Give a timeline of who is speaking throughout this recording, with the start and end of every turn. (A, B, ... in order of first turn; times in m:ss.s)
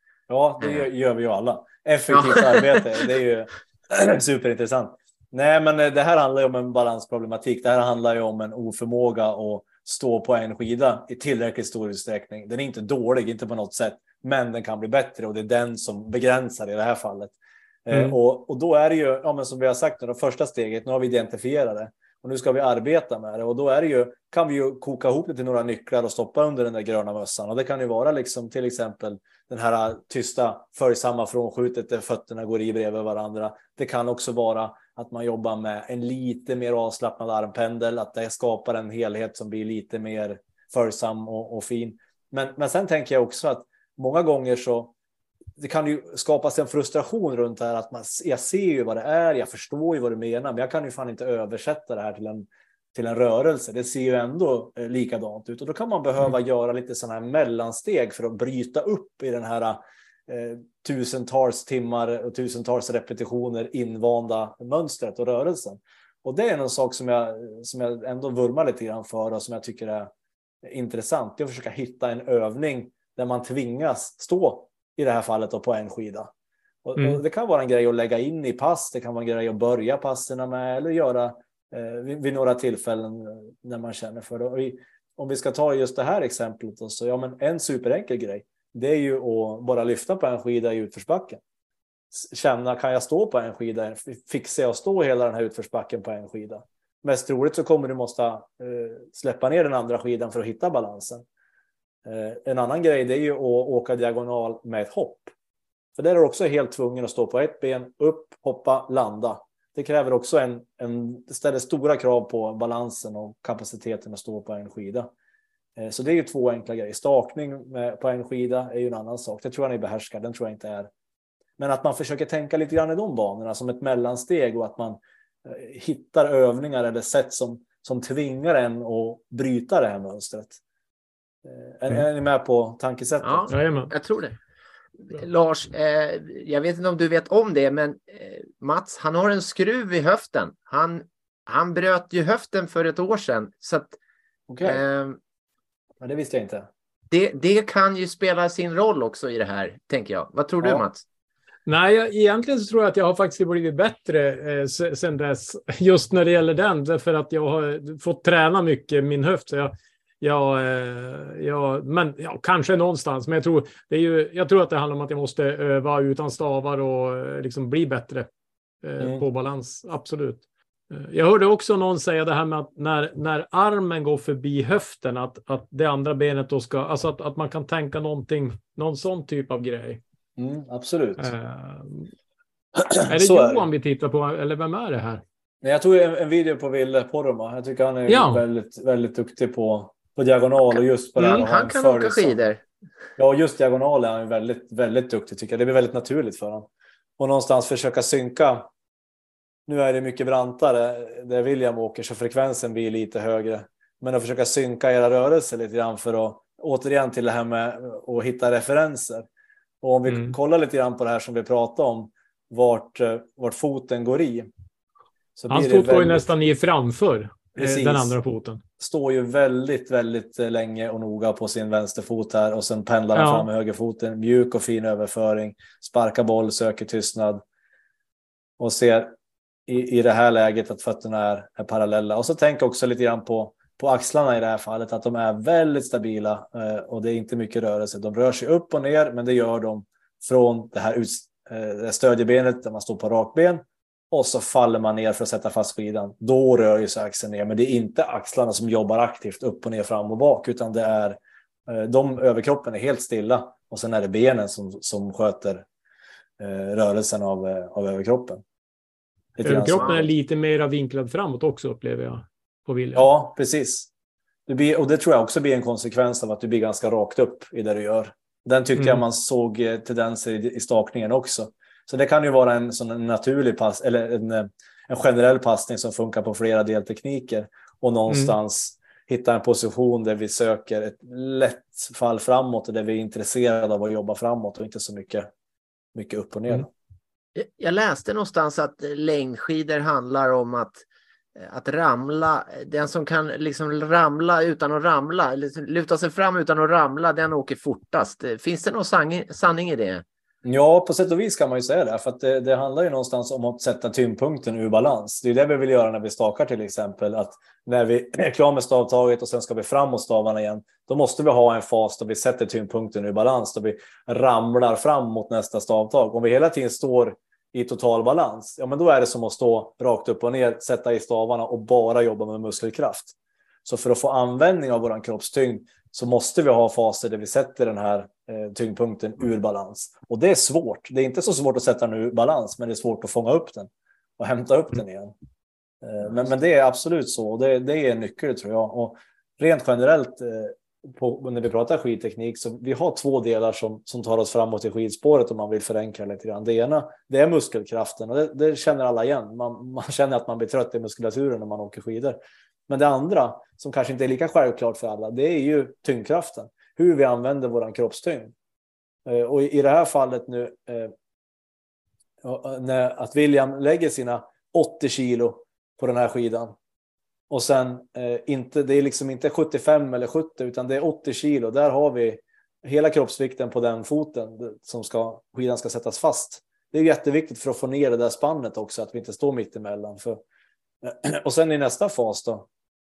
0:00.3-0:17.3 A
0:00.6-0:00.8 B
0:02.1-0:02.8 B
0:17.8-0:44.9 A
0:45.6-1:10.1 A
1:10.6-1:16.3 A
1:16.8-1:31.4 A
1:32.1-1:41.2 A
1:42.0-1:45.3 A
1:46.0-1:55.1 A
1:55.8-2:00.9 A
2:01.6-2:10.6 A
2:11.4-2:13.5 A
2:13.2-2:14.4 B
2:13.5-2:13.9 C
2:15.0-2:24.0 B
2:24.5-2:24.8 A
2:24.6-2:25.2 B
2:26.0-2:26.7 A
2:27.1-2:31.0 B
2:31.6-2:48.3 C
2:48.8-3:00.0 C
3:00.4-3:01.3 A
3:01.2-3:02.1 C
3:02.8-3:03.6 A
3:03.0-3:05.2 C
3:05.6-3:12.4 A
3:08.1-3:08.4 C
3:11.2-3:12.6 B
3:13.2-3:18.7 A
3:19.7-3:29.3 A
3:29.8-3:34.5 A
3:30.1-3:30.3 C
3:35.4-3:36.3 A
3:35.5-3:38.6 C
3:37.6-3:38.2 A
3:38.8-3:47.4 A
3:43.1-3:43.5 C
3:48.6-3:49.1 A
3:49.7-4:15.6 A
4:16.4-4:18.4 A
4:19.4-4:20.1 A
4:19.4-4:23.1 C
4:19.7-4:20.0 B
4:22.9-4:23.9 A
4:24.5-4:45.3 A
4:38.1-4:38.3 C
4:45.9-4:46.7 A
4:47.4-4:50.8 B
4:51.4-5:00.0 B
5:00.4-5:35.1 A
5:35.8-5:58.3 A
5:59.0-6:00.9 A
6:02.2-6:06.5 A
6:07.3-6:20.2 A
6:20.8-6:22.5 A